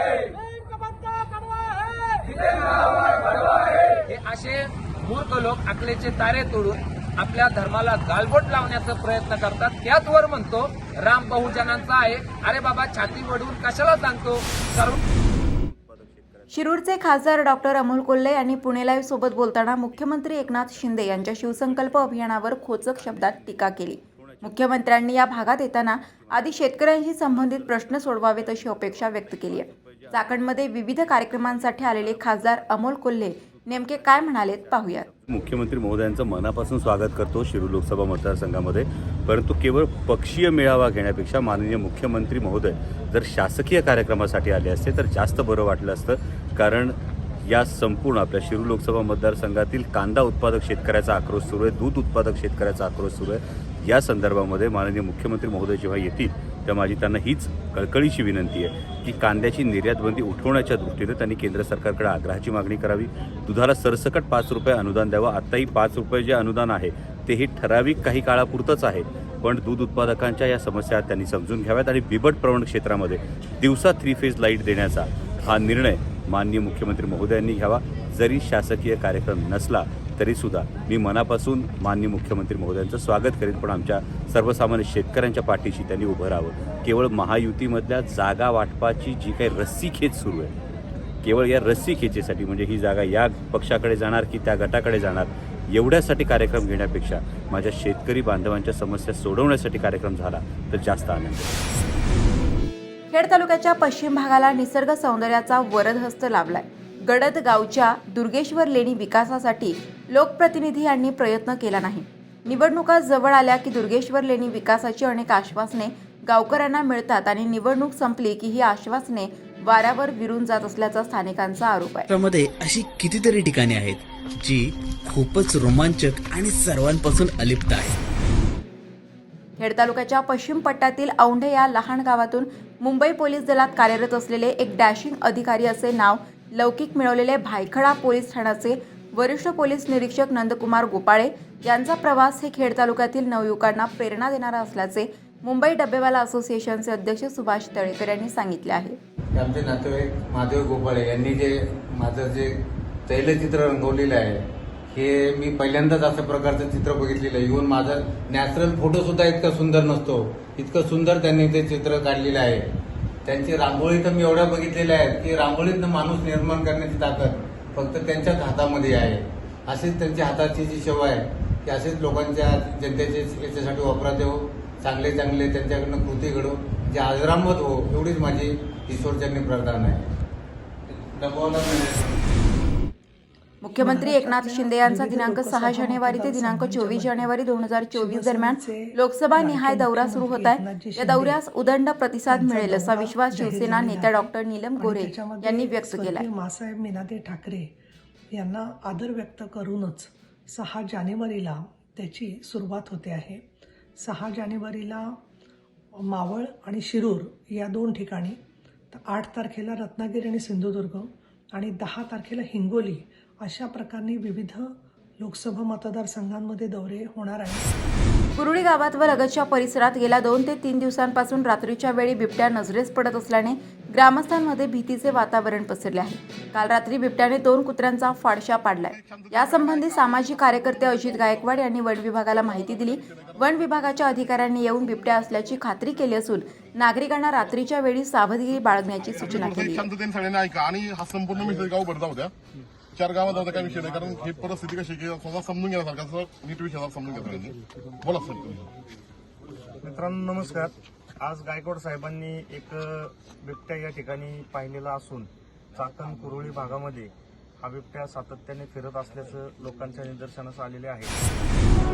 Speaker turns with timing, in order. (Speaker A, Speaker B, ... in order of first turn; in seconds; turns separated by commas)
Speaker A: 3.2-15.0, Speaker B: 15.1-18.7, Speaker C: 16.5-35.1, Speaker B: 19.6-25.3, Speaker B: 26.1-26.4, Speaker B: 27.2-30.5, Speaker B: 31.1-32.8, Speaker B: 33.4-90.5, Speaker B: 91.2-101.5, Speaker C: 103.1-122.1, Speaker D: 122.1-128.0, Speaker C: 129.6-149.0, Speaker E: 149.3-152.5, Speaker E: 153.1-154.4, Speaker E: 154.9-162.6, Speaker E: 163.2-180.1, Speaker E: 180.9-182.2, Speaker C: 183.6-196.3, Speaker F: 183.7-187.3, Speaker F: 187.9-191.4, Speaker F: 192.3-197.7, Speaker F: 198.3-203.4, Speaker F: 204.0-205.2, Speaker F: 206.0-208.4, Speaker F: 208.9-217.6, Speaker C: 218.3-239.8, Speaker G: 228.9-231.6, Speaker G: 232.3-234.1, Speaker G: 235.0-235.5, Speaker G: 239.3-242.3, Speaker G: 242.9-248.7, Speaker H: 243.7-244.8, Speaker H: 249.8-261.2